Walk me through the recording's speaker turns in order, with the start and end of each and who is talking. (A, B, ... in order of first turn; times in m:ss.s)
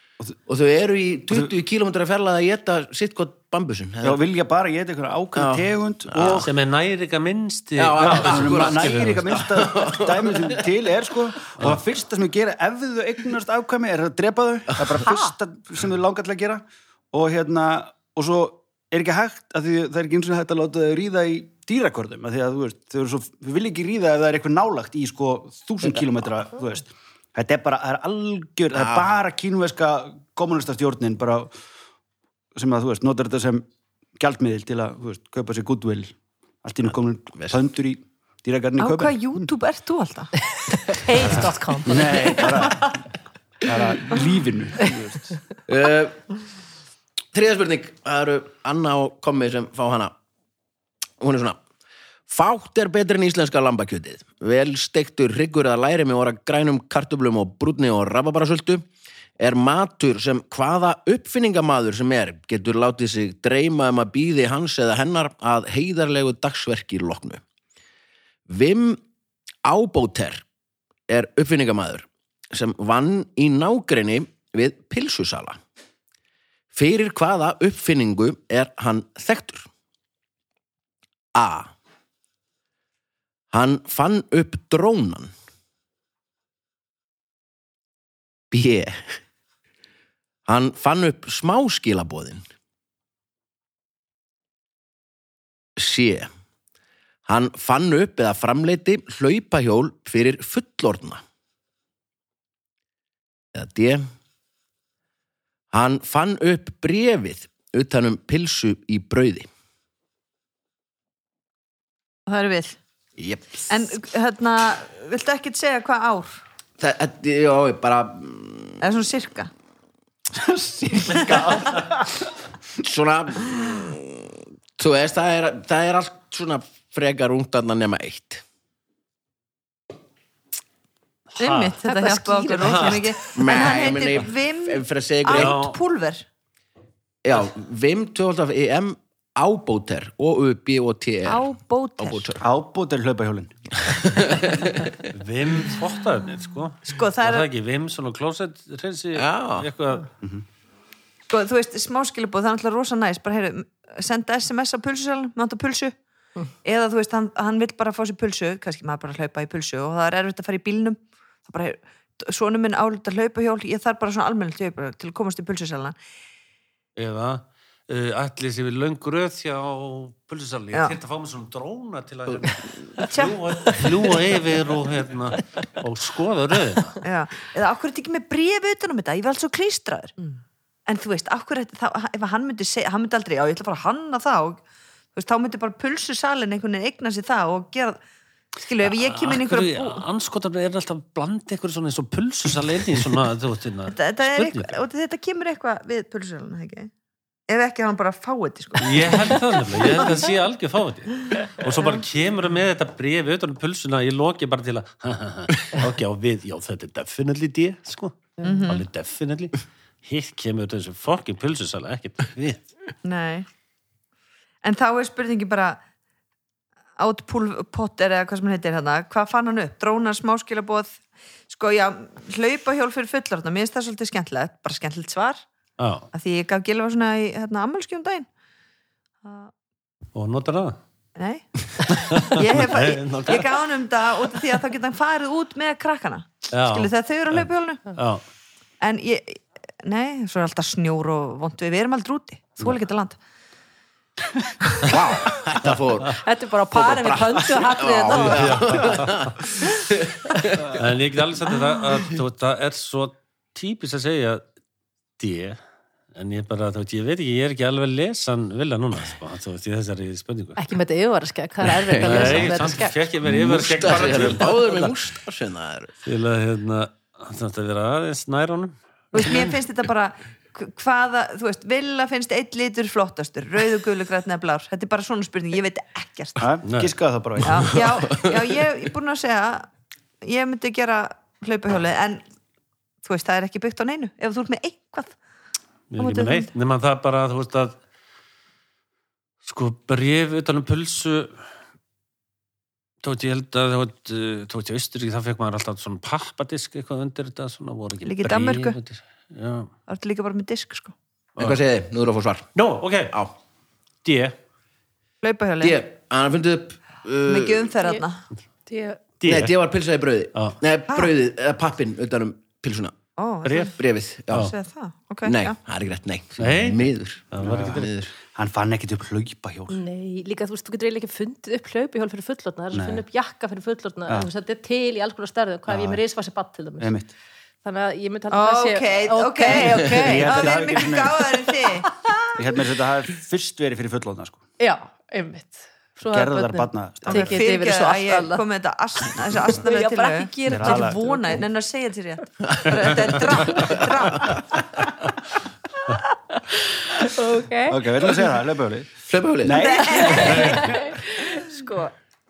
0:00.4-0:04.2 A
0:04.0-0:06.5 B
0:05.3-0:06.5 A
0:06.4-0:09.4 C
0:07.8-0:10.6 A
0:08.0-0:31.5 B
0:15.0-0:15.3 D
0:28.7-0:29.1 A
0:32.5-0:33.6 B
0:34.2-0:39.5 B
0:38.8-0:40.3 E
0:40.5-0:42.9 D
0:41.2-0:43.0 B
0:43.6-0:45.3 B
0:45.7-0:46.2 A
0:47.3-0:50.1 A
0:51.2-0:51.6 A
0:52.3-0:58.8 A
0:59.4-1:07.4 A
1:08.5-1:09.0 A
1:09.6-1:10.4 A
1:11.1-1:15.6 A
1:16.7-1:19.7 A
1:21.3-1:21.7 A
1:23.5-1:25.3 A
1:28.5-1:29.0 A
1:30.4-1:32.4 A
1:35.8-1:36.3 A
1:37.2-1:41.2 A
1:43.5-1:44.1 A
1:45.7-1:49.5 A
1:52.3-1:52.8 E
1:53.2-1:53.8 A
1:53.7-1:56.4 E
1:56.8-1:58.8 A
1:58.8-1:59.5 E
2:00.3-2:02.2 B
2:01.0-2:01.7 E
2:02.8-2:08.4 A
2:11.3-2:11.8 C
2:11.4-2:16.2 E
2:11.8-2:13.0 D
2:12.6-2:13.1 C
2:13.3-2:15.6 A
2:15.3-2:15.8 C
2:17.2-2:22.4 A
2:21.2-2:22.3 E
2:22.4-2:23.5 B
2:23.8-2:25.1 A
2:25.1-2:30.1 C
2:26.9-2:27.5 E
2:29.1-2:29.7 A
2:31.3-2:36.0 E
2:36.6-2:46.0 E
2:47.0-2:57.0 C
2:52.3-2:52.8 A
2:53.0-2:54.1 E
2:57.0-3:00.1 E
3:00.9-3:04.6 E
3:05.1-3:08.0 E
3:08.6-3:10.0 E
3:08.8-3:14.7 C
3:13.9-3:16.9 E
3:17.5-3:20.0 E
3:18.8-3:32.7 C
3:28.4-3:28.8 E
3:33.0-3:33.5 E
3:34.6-3:35.8 E
3:37.0-3:45.4 E
3:45.8-3:46.0 C
3:46.1-3:48.3 E
3:49.2-3:49.5 E
3:50.1-3:50.8 C
3:51.2-3:57.9 E
3:51.9-3:53.6 C
3:56.5-3:58.2 C
3:58.8-4:03.2 E
4:04.7-4:05.0 E
4:04.8-4:06.2 A
4:06.1-4:08.8 D
4:06.7-4:10.8 A
4:08.1-4:09.3 C
4:10.6-4:14.4 C
4:15.2-4:15.6 C
4:16.1-4:20.6 C
4:20.6-4:23.0 D
4:21.6-4:22.6 A
4:22.0-4:24.9 C
4:23.2-4:25.9 A
4:26.0-4:29.4 C
4:29.1-4:36.5 E
4:36.4-4:37.8 B
4:36.6-4:36.9 C
4:37.4-4:39.7 E
4:40.2-4:42.2 E
4:43.0-4:45.2 E
4:45.9-4:47.8 C
4:46.0-4:46.5 E
4:49.4-4:51.4 C
4:53.0-4:59.7 C
4:58.0-4:58.8 E
4:59.9-5:00.9 E
5:01.4-5:02.5 A
5:02.5-5:03.1 C
5:04.0-5:04.3 C
5:05.2-5:05.8 E
5:05.6-5:07.7 A
5:07.3-5:08.2 E
5:08.7-5:09.1 D
5:09.2-5:09.5 C
5:09.2-5:13.0 A
5:13.2-5:13.8 E
5:13.4-5:13.7 C
5:13.8-5:14.5 A
5:14.3-5:15.6 E
5:15.2-5:18.1 A
5:16.4-5:17.9 C
5:17.4-5:19.8 B
5:19.7-5:26.9 D
5:22.7-5:23.0 B
5:25.7-5:26.0 B
5:26.8-5:27.1 B
5:27.6-5:30.5 D
5:28.3-5:32.1 E
5:29.9-5:31.4 B
5:32.3-5:34.4 B
5:34.6-5:38.4 D
5:36.0-5:37.4 B
5:37.1-5:44.6 E
5:39.5-5:41.4 D
5:40.5-5:41.0 B
5:46.5-5:47.8 D
5:47.7-5:51.0 B
5:49.1-5:49.7 A
5:49.5-5:50.8 E
5:49.9-5:51.9 D
5:51.4-5:51.8 E